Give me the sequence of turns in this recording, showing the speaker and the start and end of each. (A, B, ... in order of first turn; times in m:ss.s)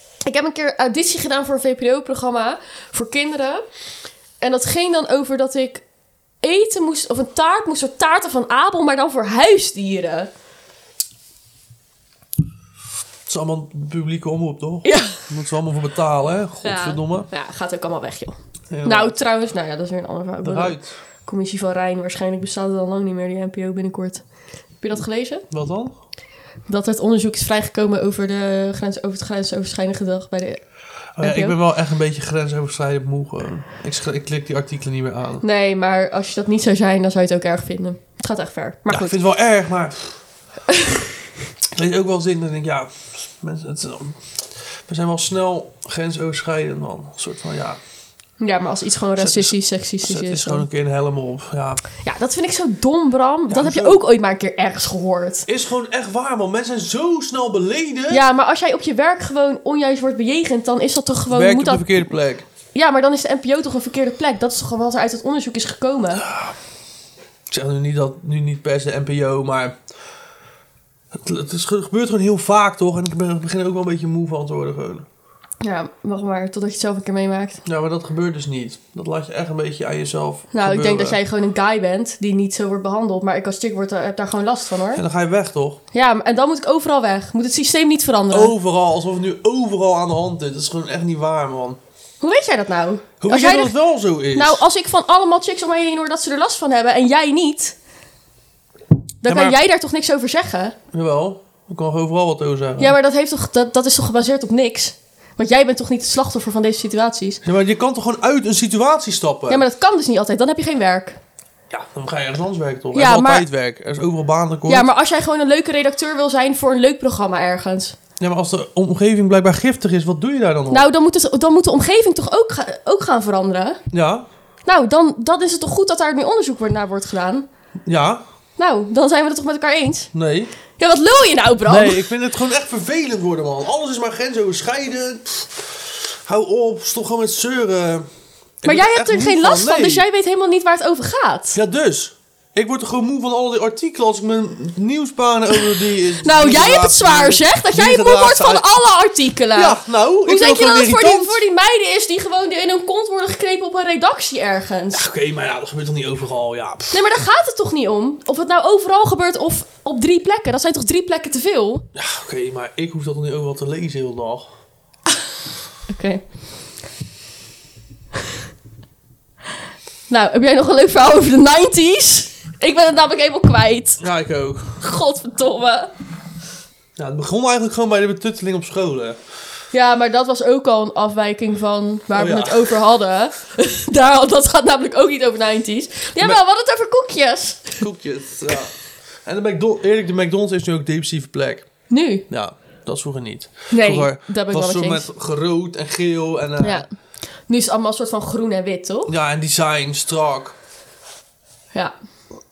0:00.2-0:03.6 A
0:04.4-0:05.8 A
0:06.4-0:10.3 A
0:13.2-0:17.3 B
0:14.8-0:15.3 A
0:16.6-0:24.2 A
0:18.7-0:19.2 B
0:20.4-0:20.9 B
0:24.8-0:25.4 A
0:25.5-0:26.0 B
0:26.7-0:30.6 A
0:31.2-0:35.4 B
0:31.2-0:31.6 A
0:35.4-0:39.2 A
0:38.9-0:40.2 B
0:40.7-0:41.0 A
0:41.7-0:47.8 B
0:48.4-0:50.6 A
0:49.2-0:51.8 B
0:52.0-0:55.5 A
0:53.5-0:54.0 B
0:55.4-0:58.2 B
0:58.1-1:02.1 A
1:01.3-1:02.4 B
1:02.7-1:06.2 A
1:06.2-1:06.6 B
1:07.5-1:09.8 B
1:11.1-1:15.1 B
1:15.6-1:17.6 A
1:17.6-1:21.2 B
1:20.5-1:25.0 A
1:24.9-1:25.8 B
1:25.9-1:28.5 A
1:28.3-1:31.8 B
1:32.2-1:33.8 A
1:33.2-1:34.6 B
1:34.3-1:37.8 A
1:39.2-1:40.8 A
1:39.2-1:39.6 B
1:40.9-1:43.0 B
1:42.8-1:47.4 A
1:47.4-1:49.6 B
1:49.5-1:51.2 A
1:51.7-1:54.9 B
1:52.9-1:53.4 A
1:54.7-1:58.0 A
1:58.2-2:00.8 B
2:00.7-2:03.8 A
2:03.9-2:04.3 B
2:04.6-2:07.5 A
2:07.8-2:08.2 B
2:08.6-2:10.1 A
2:10.1-2:10.5 B
2:10.8-2:12.1 A
2:11.6-2:18.1 B
2:18.6-2:20.0 B
2:18.6-2:21.6 A
2:21.5-2:28.6 B
2:26.2-2:35.0 A
2:29.5-2:31.4 B
2:34.9-2:37.0 B
2:36.9-2:41.8 A
2:41.9-2:44.5 B
2:45.9-2:46.2 A
2:50.1-2:54.0 A
2:54.0-2:54.8 B
2:54.8-2:55.9 A
2:57.0-2:59.2 B
2:59.7-3:07.8 A
3:02.1-3:02.8 B
3:07.8-3:08.7 B
3:09.2-3:11.7 B
3:11.9-3:12.2 A
3:12.3-3:16.8 B
3:13.7-3:15.1 A
3:16.6-3:16.9 A
3:17.5-3:19.1 A
3:19.1-3:20.6 B